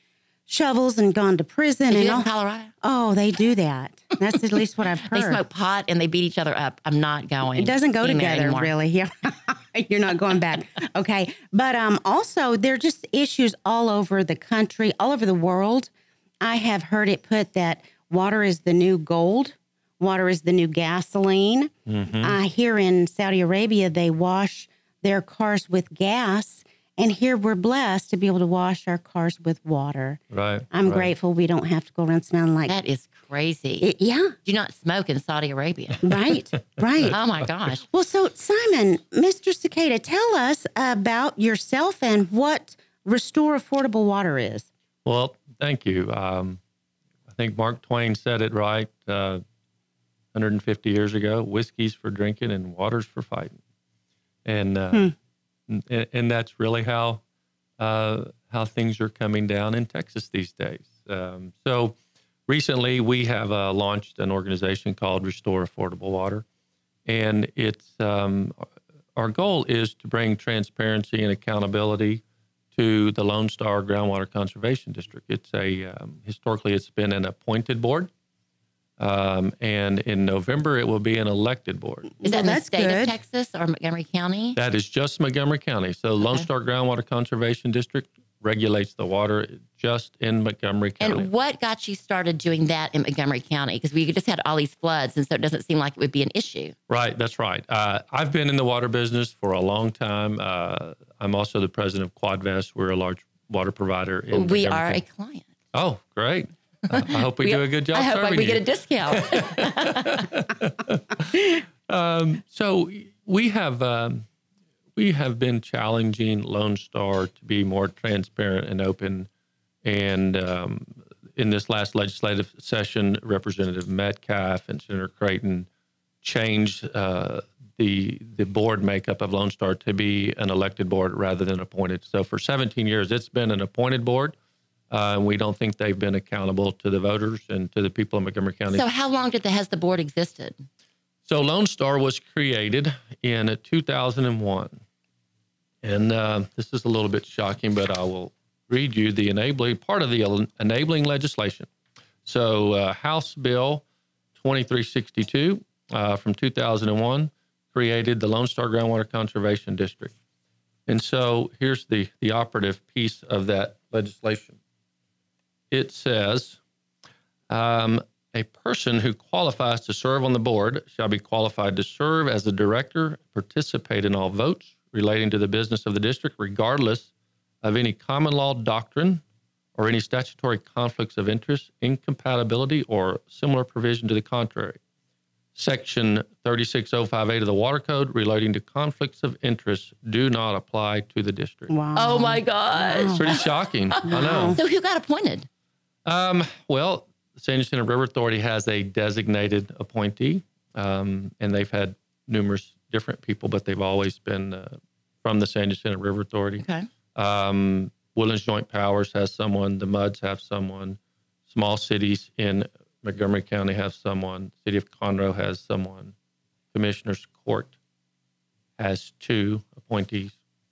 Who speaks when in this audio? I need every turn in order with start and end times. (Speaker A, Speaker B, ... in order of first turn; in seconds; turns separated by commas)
Speaker A: 0.5-2.3, Speaker B: 1.9-2.7, Speaker A: 2.8-5.4, Speaker B: 5.1-8.7, Speaker A: 7.5-32.7, Speaker C: 21.9-22.4, Speaker C: 30.3-31.1, Speaker B: 32.7-33.9, Speaker A: 33.8-34.3, Speaker B: 34.4-36.1, Speaker A: 36.0-37.2, Speaker B: 37.1-37.8, Speaker A: 37.9-44.7, Speaker C: 45.0-46.6, Speaker C: 47.3-49.4, Speaker C: 50.3-53.6, Speaker C: 54.4-55.1, Speaker C: 55.7-57.2, Speaker C: 57.8-66.4, Speaker C: 67.0-68.6, Speaker C: 69.2-72.2, Speaker C: 72.7-78.1, Speaker C: 79.0-82.1, Speaker A: 82.2-83.2, Speaker B: 82.2-84.6, Speaker C: 84.5-91.3, Speaker B: 91.0-96.7, Speaker C: 96.9-105.0, Speaker B: 104.3-105.5, Speaker C: 105.7-114.2, Speaker B: 106.9-110.3, Speaker C: 115.0-119.3, Speaker C: 119.8-125.7, Speaker C: 126.2-134.3, Speaker C: 134.9-138.8, Speaker B: 138.7-140.6, Speaker C: 141.2-144.8, Speaker C: 145.8-151.7, Speaker C: 152.2-153.8, Speaker C: 154.3-160.1, Speaker C: 160.9-164.6, Speaker C: 165.7-166.6, Speaker C: 167.5-177.1, Speaker C: 177.6-179.2, Speaker C: 179.8-184.8, Speaker C: 185.6-191.7, Speaker A: 191.7-193.4, Speaker B: 191.9-195.5, Speaker C: 193.2-194.6, Speaker A: 194.0-194.6, Speaker C: 196.1-206.6, Speaker B: 206.6-206.8, Speaker C: 207.1-216.1, Speaker C: 216.7-217.7, Speaker C: 218.8-220.3